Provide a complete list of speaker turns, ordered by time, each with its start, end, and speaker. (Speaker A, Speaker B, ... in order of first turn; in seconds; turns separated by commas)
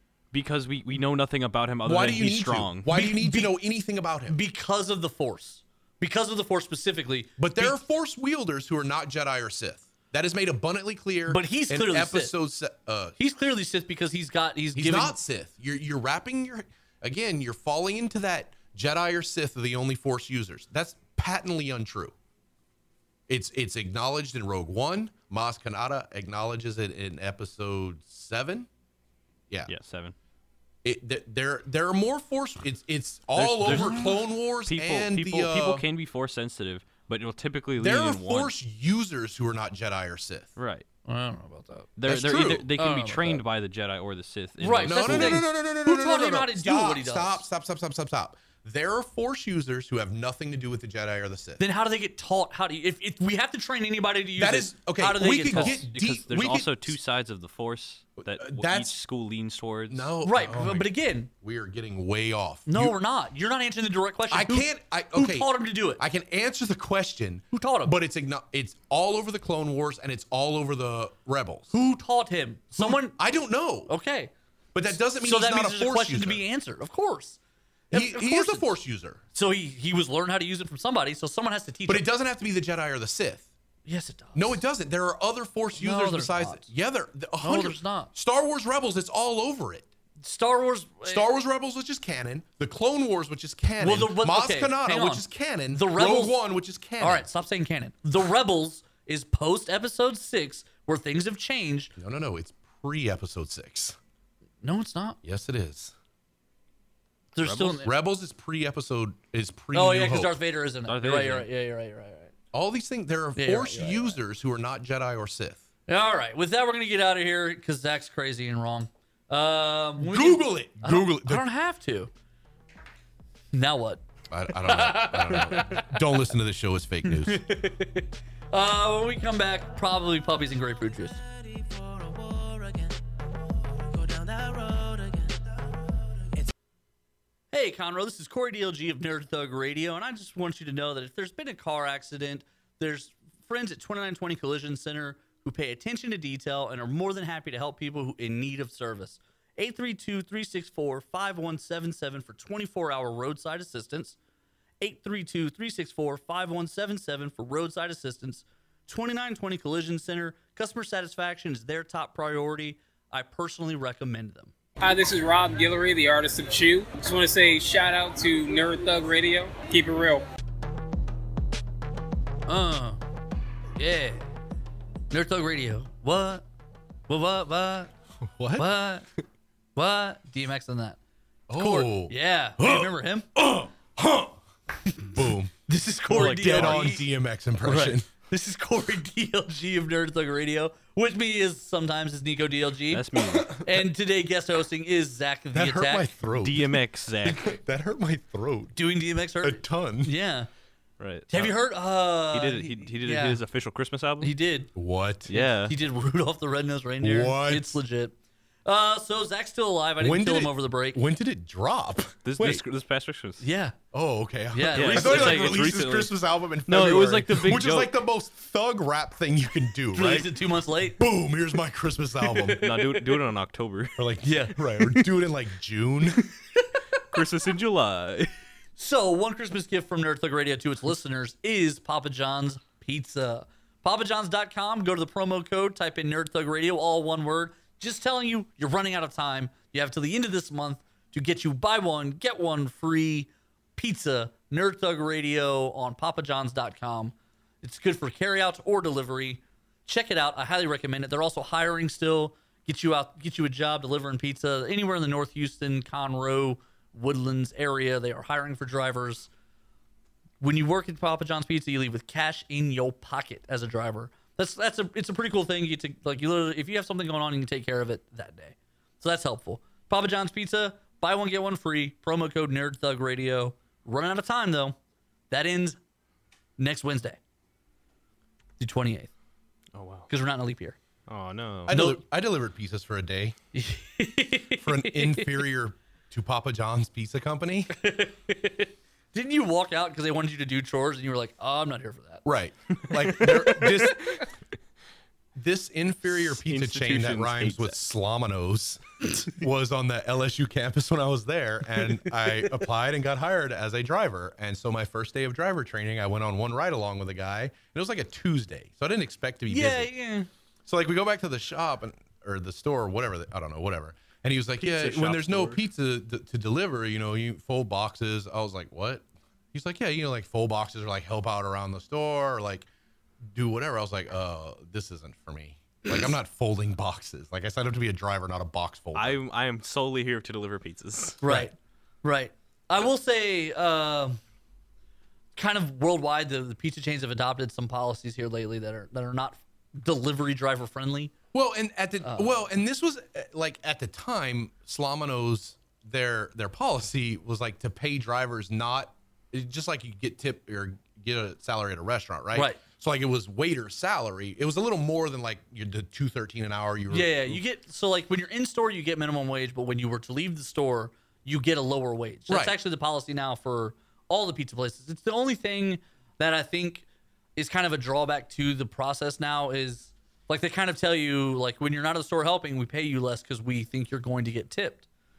Speaker A: 0.3-2.9, Speaker B: 1.8-4.4, Speaker C: 2.9-3.5, Speaker C: 4.3-7.8, Speaker B: 7.4-13.2, Speaker C: 11.3-12.3, Speaker C: 13.2-15.2, Speaker B: 14.8-22.1, Speaker B: 23.3-28.7, Speaker A: 29.7-30.1, Speaker B: 30.8-35.9, Speaker A: 33.4-38.5, Speaker C: 33.6-34.1, Speaker B: 37.8-40.5, Speaker A: 40.6-40.9, Speaker C: 41.1-41.9, Speaker A: 42.0-45.5, Speaker B: 42.1-42.7, Speaker C: 42.8-43.4, Speaker C: 44.6-47.4, Speaker B: 44.8-51.6, Speaker C: 51.6-55.8, Speaker B: 54.4-57.0, Speaker A: 55.5-60.1, Speaker B: 58.2-59.0, Speaker B: 59.9-63.0, Speaker C: 60.2-61.3, Speaker C: 62.7-66.0, Speaker B: 64.3-71.7, Speaker C: 67.5-68.0, Speaker C: 71.7-73.2, Speaker B: 72.8-73.9, Speaker C: 73.9-74.3, Speaker B: 74.7-76.4, Speaker C: 74.9-77.4, Speaker C: 77.9-78.7, Speaker B: 77.9-79.2, Speaker C: 79.3-82.1, Speaker B: 81.9-83.5, Speaker C: 83.9-84.6, Speaker B: 84.3-89.9, Speaker C: 85.8-86.7, Speaker C: 87.4-88.1, Speaker C: 90.2-91.2, Speaker B: 91.0-97.3, Speaker C: 93.8-96.4, Speaker C: 97.0-101.9, Speaker B: 102.0-104.0, Speaker C: 104.6-105.2, Speaker B: 105.2-105.9, Speaker C: 107.3-107.9, Speaker A: 107.4-107.8, Speaker B: 107.8-110.4, Speaker C: 109.7-112.3, Speaker A: 110.9-111.5, Speaker B: 112.5-115.6, Speaker C: 113.4-114.2, Speaker C: 115.9-122.1, Speaker B: 120.0-121.4, Speaker C: 123.5-126.0, Speaker B: 124.3-127.4, Speaker C: 127.1-131.2, Speaker D: 131.1-133.2, Speaker D: 133.8-135.8, Speaker C: 137.5-154.2, Speaker C: 154.8-164.5, Speaker E: 164.8-170.2, Speaker C: 172.5-173.0, Speaker C: 173.8-174.3, Speaker C: 175.1-176.4, Speaker C: 177.1-177.9, Speaker B: 178.2-178.7, Speaker C: 178.6-179.1, Speaker C: 179.8-181.0, Speaker B: 181.5-184.3, Speaker C: 181.5-183.3, Speaker C: 184.9-187.1, Speaker B: 185.0-185.5, Speaker A: 186.1-186.9, Speaker B: 186.1-188.1, Speaker C: 187.6-196.1, Speaker A: 192.9-193.6, Speaker B: 195.5-198.8, Speaker A: 196.4-197.6, Speaker C: 198.8-200.5, Speaker B: 199.4-200.1, Speaker A: 201.0-201.6, Speaker C: 201.3-203.4, Speaker A: 202.3-204.3, Speaker C: 204.2-204.7, Speaker B: 204.8-205.3, Speaker A: 205.3-205.7, Speaker C: 205.3-208.1, Speaker B: 207.0-207.8, Speaker C: 208.7-211.0, Speaker B: 210.0-212.6, Speaker A: 212.2-213.4, Speaker C: 213.4-213.8, Speaker B: 213.9-220.3, Speaker C: 214.5-215.6, Speaker A: 214.8-217.9, Speaker C: 219.9-221.0, Speaker B: 221.0-222.7, Speaker C: 222.4-222.9, Speaker A: 222.6-224.1, Speaker B: 224.0-226.2, Speaker C: 224.2-224.6, Speaker A: 227.1-228.3, Speaker C: 228.8-259.3, Speaker C: 260.4-274.8, Speaker C: 275.3-275.8, Speaker C: 276.6-277.2, Speaker C: 278.6-279.1, Speaker A: 279.7-280.1, Speaker C: 280.1-280.8, Speaker A: 281.1-281.7, Speaker B: 281.7-283.4, Speaker C: 281.7-282.0, Speaker C: 283.5-285.4, Speaker B: 284.6-287.7, Speaker C: 287.7-292.2, Speaker B: 292.2-294.2, Speaker A: 293.2-293.5, Speaker B: 295.4-309.9, Speaker A: 296.1-297.8, Speaker C: 309.5-310.3, Speaker B: 310.7-322.7, Speaker A: 314.6-315.6, Speaker B: 323.3-329.2, Speaker A: 328.9-331.2, Speaker C: 331.2-334.2, Speaker C: 335.4-341.1, Speaker B: 341.3-357.4, Speaker C: 342.0-342.4, Speaker C: 352.3-352.6, Speaker C: 356.9-366.9, Speaker B: 362.3-362.6, Speaker C: 367.4-374.9